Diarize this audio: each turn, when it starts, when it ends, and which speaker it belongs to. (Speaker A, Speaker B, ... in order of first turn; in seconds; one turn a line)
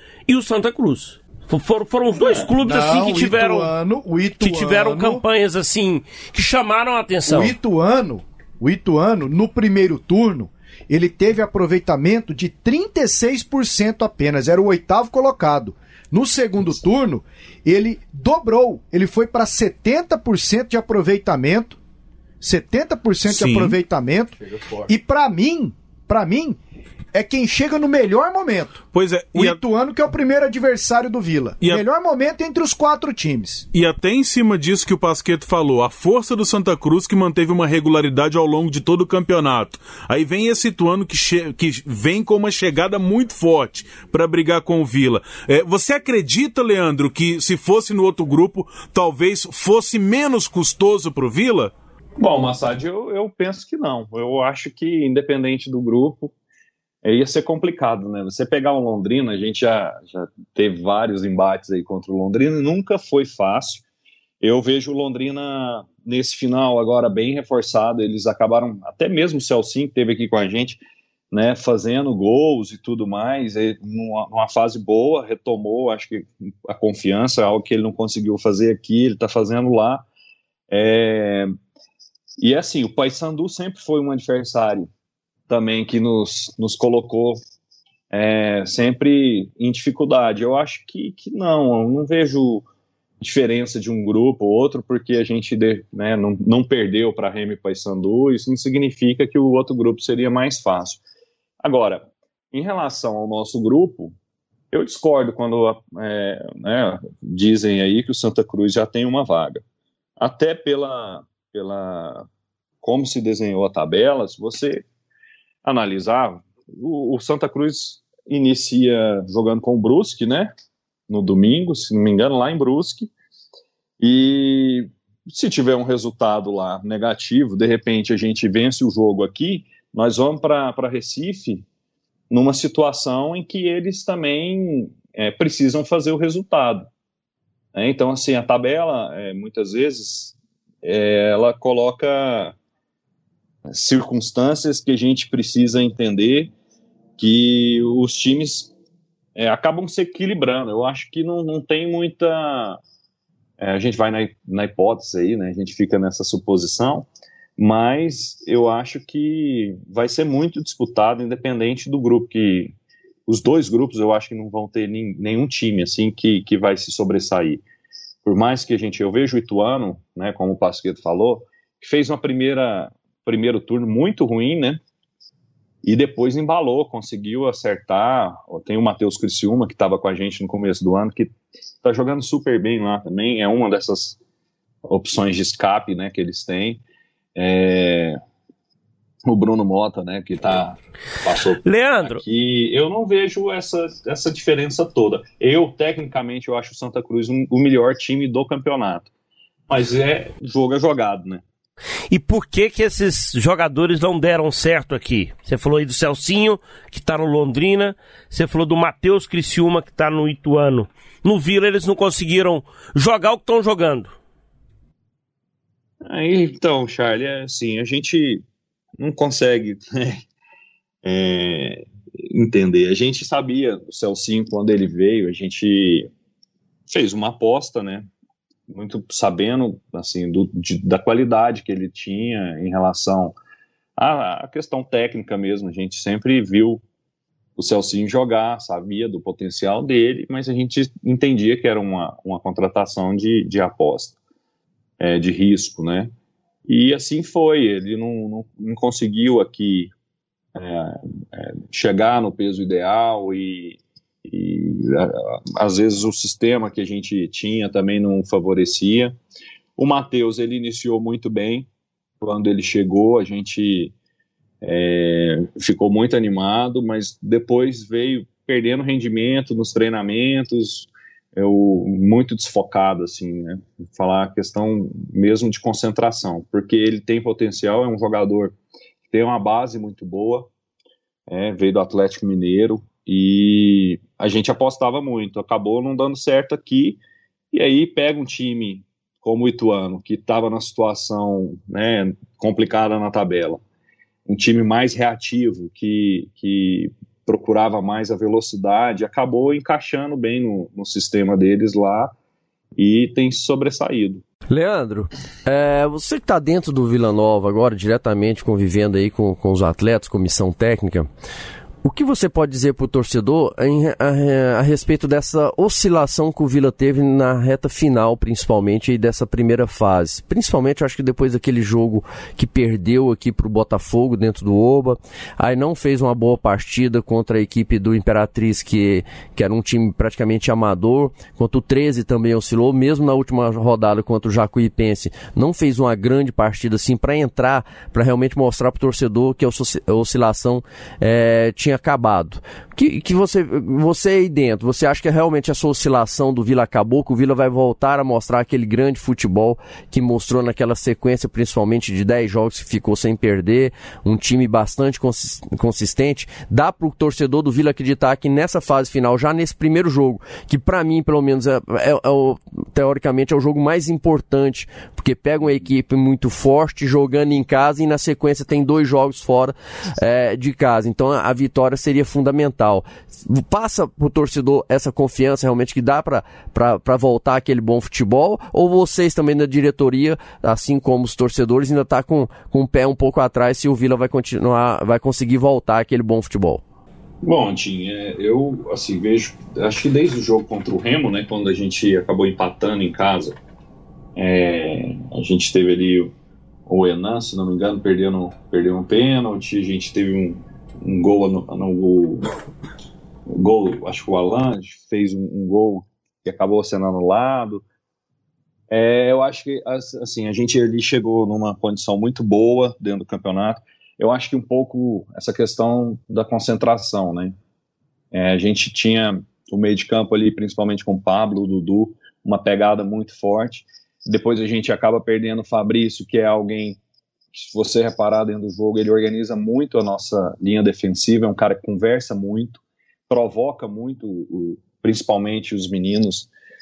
Speaker A: 0.3-3.7
Speaker B: 2.6-5.2
Speaker A: 4.4-7.5
Speaker B: 7.2-21.8
Speaker B: 22.4-24.4
Speaker C: 23.3-23.8
Speaker B: 24.9-26.6
Speaker B: 27.1-28.8
Speaker C: 28.9-29.6
Speaker B: 29.3-33.6
Speaker C: 33.7-51.7
Speaker D: 52.2-56.3
Speaker D: 57.0-63.8
Speaker D: 64.4-70.8
Speaker D: 71.3-80.0
Speaker D: 80.7-81.5
Speaker D: 82.4-84.9
Speaker D: 85.5-87.4
Speaker D: 88.1-92.6
Speaker D: 93.2-101.0
Speaker D: 101.6-104.1
Speaker D: 104.7-109.6
Speaker D: 110.2-112.2
Speaker D: 112.8-114.8
Speaker D: 115.6-120.5
Speaker D: 121.1-123.1
Speaker D: 124.0-131.6
Speaker D: 132.3-136.9
Speaker D: 137.7-142.5
Speaker D: 143.7-146.5
Speaker D: 147.2-148.7
Speaker D: 149.3-152.8
Speaker D: 153.6-162.7
Speaker D: 163.3-167.6
Speaker D: 168.2-174.8
Speaker D: 175.8-181.3
Speaker D: 181.8-184.2
Speaker D: 184.8-186.8
Speaker D: 187.3-188.2
Speaker D: 189.2-199.1
Speaker A: 191.6-192.2
Speaker D: 199.7-201.4
Speaker A: 202.1-214.1
Speaker D: 216.1-218.4
Speaker D: 219.0-220.2
Speaker D: 221.0-226.1
Speaker D: 226.9-228.1
Speaker D: 228.7-233.3
Speaker D: 234.0-236.8
Speaker D: 237.6-244.2
Speaker D: 245.0-246.1
Speaker D: 246.7-249.9
Speaker D: 250.5-259.1
Speaker D: 259.8-261.7
Speaker D: 262.2-263.9
Speaker D: 264.6-278.5
Speaker D: 279.1-280.5
Speaker D: 281.3-287.0
Speaker D: 287.5-293.6
Speaker D: 294.3-302.1
Speaker D: 302.8-304.2
Speaker E: 304.5-311.1
Speaker E: 311.8-386.6
Speaker D: 387.2-393.4
Speaker D: 394.1-396.1
Speaker D: 396.7-402.3
Speaker D: 403.3-407.6
Speaker D: 408.7-417.4
Speaker D: 418.1-426.8
Speaker D: 427.3-436.3